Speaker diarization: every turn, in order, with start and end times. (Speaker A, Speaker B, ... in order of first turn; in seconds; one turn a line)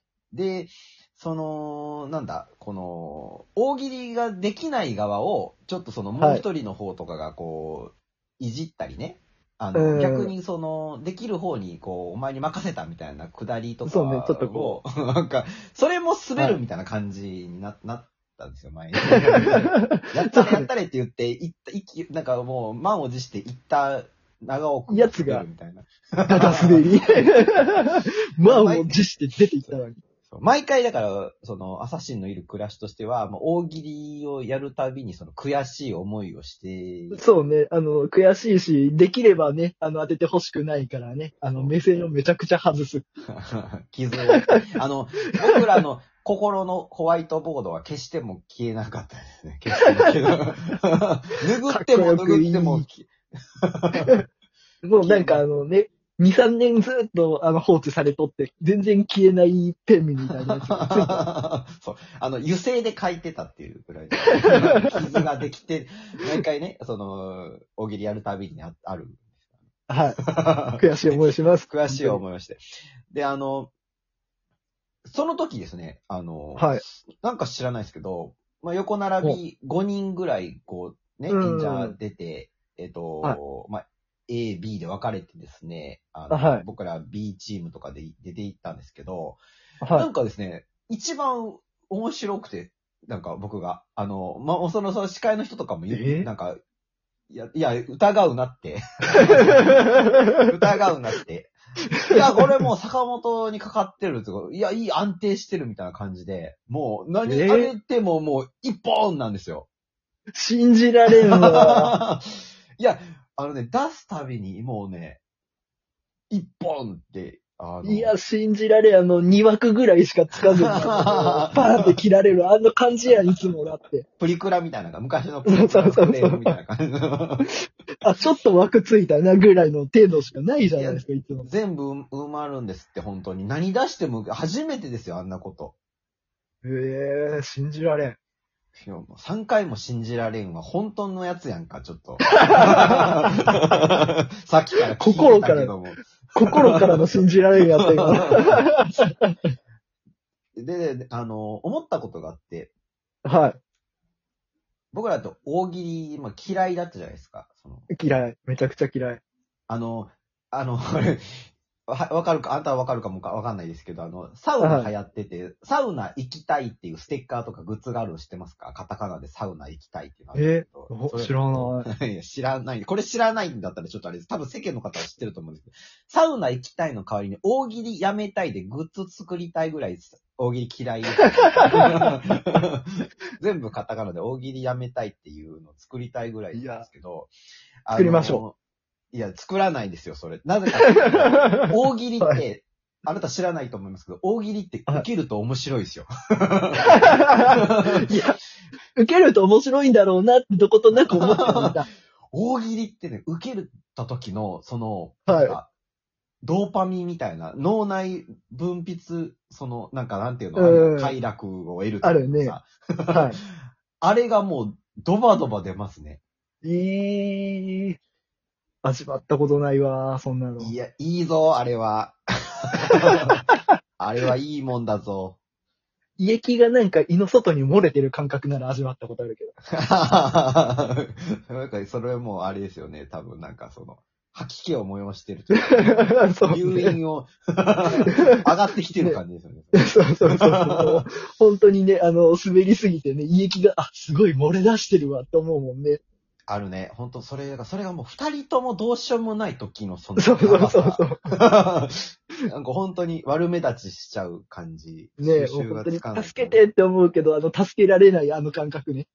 Speaker A: 0.3-29.0
Speaker B: 6.2-6.5
Speaker B: 9.7-10.3
Speaker B: 13.8-14.8
Speaker B: 19.4-20.7
Speaker B: 24.9-25.5
Speaker B: 26.3-30.0
Speaker A: 30.3-37.2
Speaker B: 37.1-43.1
Speaker A: 43.3-54.1
Speaker B: 51.7-52.9
Speaker B: 54.8-61.3
Speaker A: 55.0-55.5
Speaker A: 60.5-69.3
Speaker B: 69.9-70.2
Speaker A: 70.2-73.7
Speaker B: 70.8-72.2
Speaker A: 75.0-89.4
Speaker B: 76.6-76.8
Speaker B: 81.3-82.0
Speaker B: 86.3-86.7
Speaker B: 89.8-90.1
Speaker A: 89.9-96.6
Speaker B: 95.9-96.3
Speaker A: 97.3-101.5
Speaker B: 99.5-100.2
Speaker A: 102.1-109.7
Speaker B: 107.3-107.7
Speaker B: 110.4-111.9
Speaker A: 111.3-115.2
Speaker A: 116.3-118.2
Speaker B: 117.8-124.1
Speaker A: 120.5-122.0
Speaker A: 124.2-127.5
Speaker B: 125.5-126.5
Speaker B: 128.0-131.5
Speaker A: 130.8-135.8
Speaker B: 136.6-138.2
Speaker A: 138.8-148.7
Speaker B: 142.4-143.7
Speaker B: 145.0-145.7
Speaker B: 146.3-149.3
Speaker A: 150.6-152.7
Speaker B: 153.2-153.6
Speaker A: 154.9-157.9
Speaker B: 157.9-159.2
Speaker A: 159.7-187.3
Speaker B: 164.6-164.9
Speaker B: 170.3-171.9
Speaker B: 181.8-182.0
Speaker B: 186.5-186.9
Speaker A: 187.9-188.6
Speaker B: 187.9-188.4
Speaker A: 189.1-198.2
Speaker B: 190.9-191.5
Speaker B: 196.9-198.4
Speaker B: 199.0-201.9
Speaker A: 200.9-201.8
Speaker A: 202.3-205.7
Speaker B: 205.3-205.6
Speaker A: 206.4-213.5
Speaker B: 210.6-211.2
Speaker B: 212.0-212.6
Speaker B: 213.1-213.4
Speaker A: 214.0-216.2
Speaker B: 216.6-218.0
Speaker B: 218.8-220.7
Speaker A: 220.6-223.4
Speaker A: 224.0-225.4
Speaker B: 226.2-229.6
Speaker A: 229.7-241.1
Speaker B: 235.6-237.0
Speaker B: 237.9-238.3
Speaker B: 239.7-246.0
Speaker A: 246.5-256.7
Speaker B: 250.2-251.3
Speaker B: 255.2-259.1